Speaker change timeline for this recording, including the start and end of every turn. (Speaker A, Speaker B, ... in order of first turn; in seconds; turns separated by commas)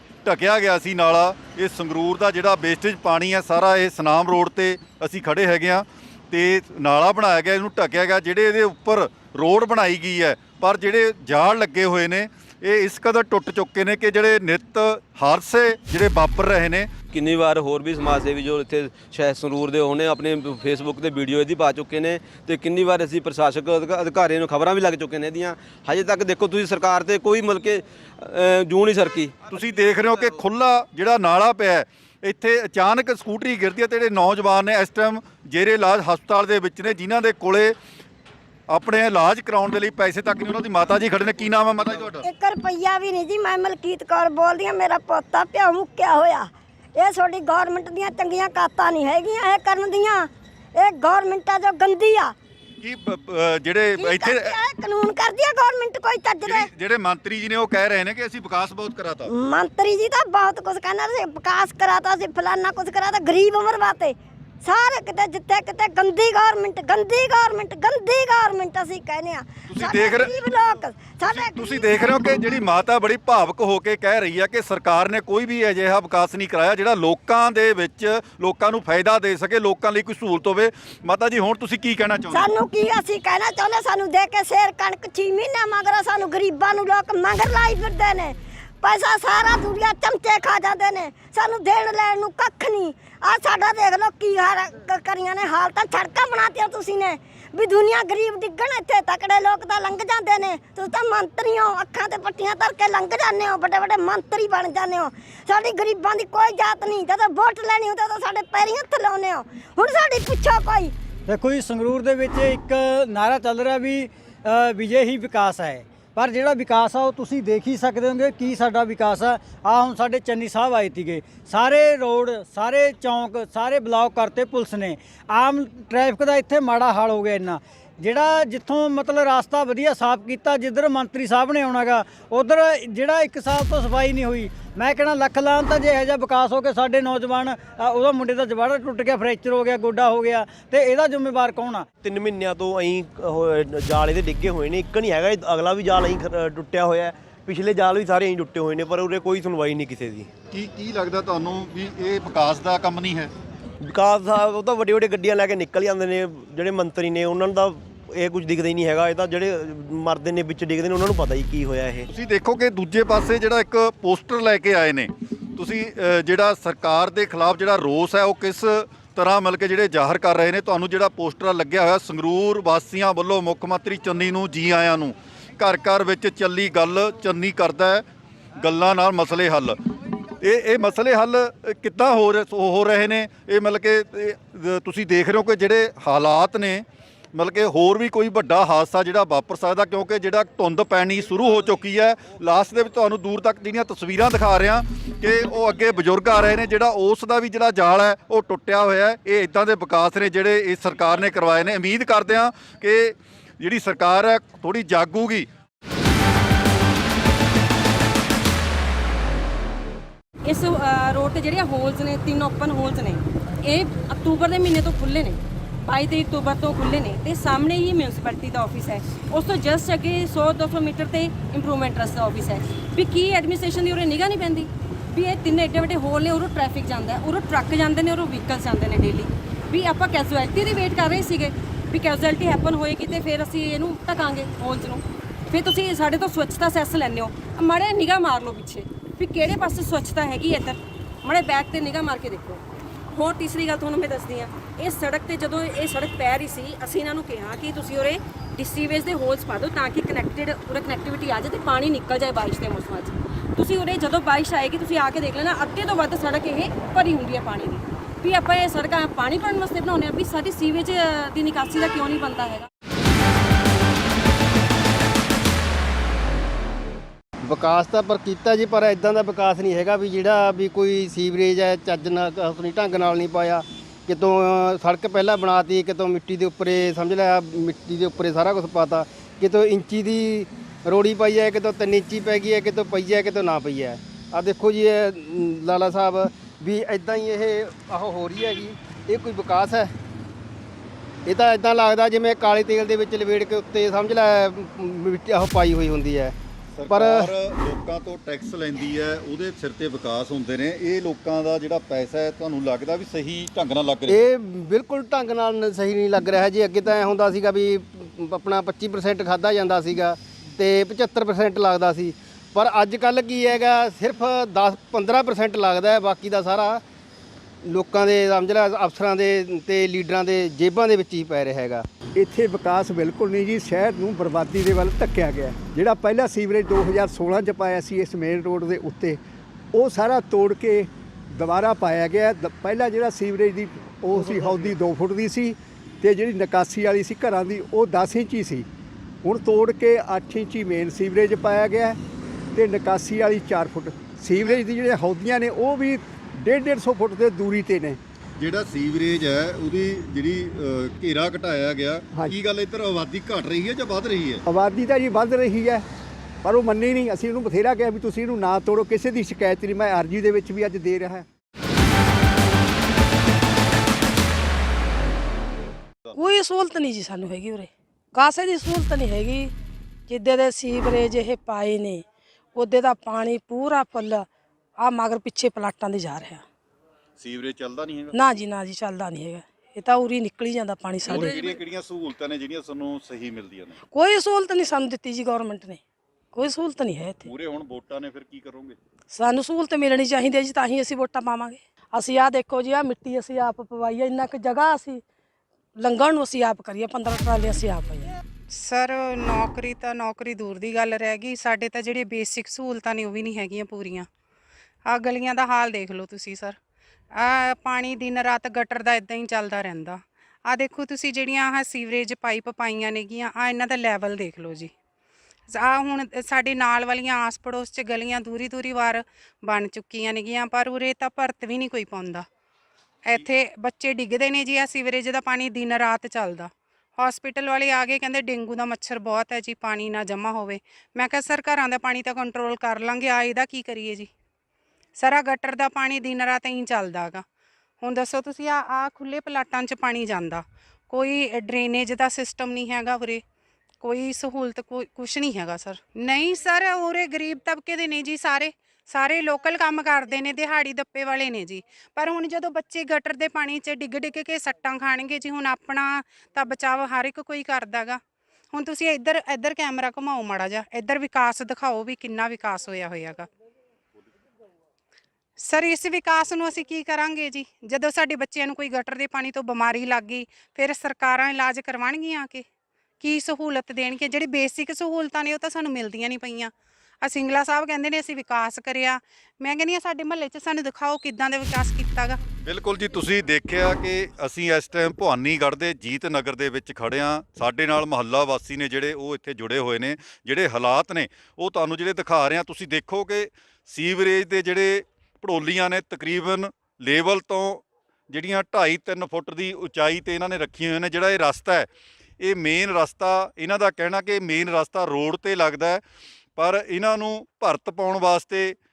Speaker A: 0.2-16.9, Speaker B: 17.1-29.4, Speaker A: 29.5-37.8, Speaker A: 38.7-42.2, Speaker C: 42.2-52.3, Speaker A: 52.8-54.5, Speaker C: 54.0-56.7, Speaker A: 56.4-59.3, Speaker C: 59.2-72.3, Speaker A: 69.7-70.3, Speaker A: 71.3-82.5, Speaker C: 82.3-110.9, Speaker D: 111.3-141.9, Speaker E: 142.0-150.3, Speaker A: 150.5-153.3, Speaker E: 153.8-162.1, Speaker A: 162.1-178.0, Speaker A: 178.6-179.8, Speaker A: 180.4-205.5, Speaker F: 210.4-242.6, Speaker F: 243.1-262.7, Speaker G: 267.4-289.9, Speaker G: 291.2-296.3, Speaker A: 296.7-304.2, Speaker G: 296.9-297.3, Speaker G: 304.1-316.8, Speaker G: 317.6-321.9, Speaker H: 322.1-329.2, Speaker H: 329.7-338.6, Speaker H: 339.2-342.0, Speaker H: 342.5-348.0, Speaker A: 348.4-354.4, Speaker H: 354.5-355.8, Speaker H: 356.4-361.2, Speaker I: 366.1-369.5, Speaker I: 370.1-372.0, Speaker I: 372.5-374.2, Speaker I: 374.8-376.4, Speaker A: 377.2-378.1, Speaker I: 378.1-381.6, Speaker A: 381.1-383.8, Speaker I: 383.9-385.8, Speaker I: 386.3-387.3, Speaker A: 387.2-388.8, Speaker I: 389.1-395.0, Speaker I: 395.8-398.1, Speaker J: 398.5-404.1, Speaker J: 404.9-406.6, Speaker J: 407.1-414.7, Speaker J: 415.5-422.3, Speaker J: 423.0-434.1, Speaker J: 434.9-437.2, Speaker J: 437.8-443.2, Speaker J: 443.8-458.0, Speaker J: 458.5-463.3, Speaker J: 465.4-472.5, Speaker J: 473.0-482.2, Speaker A: 482.4-501.7, Speaker A: 502.2-505.8, Speaker A: 506.4-508.6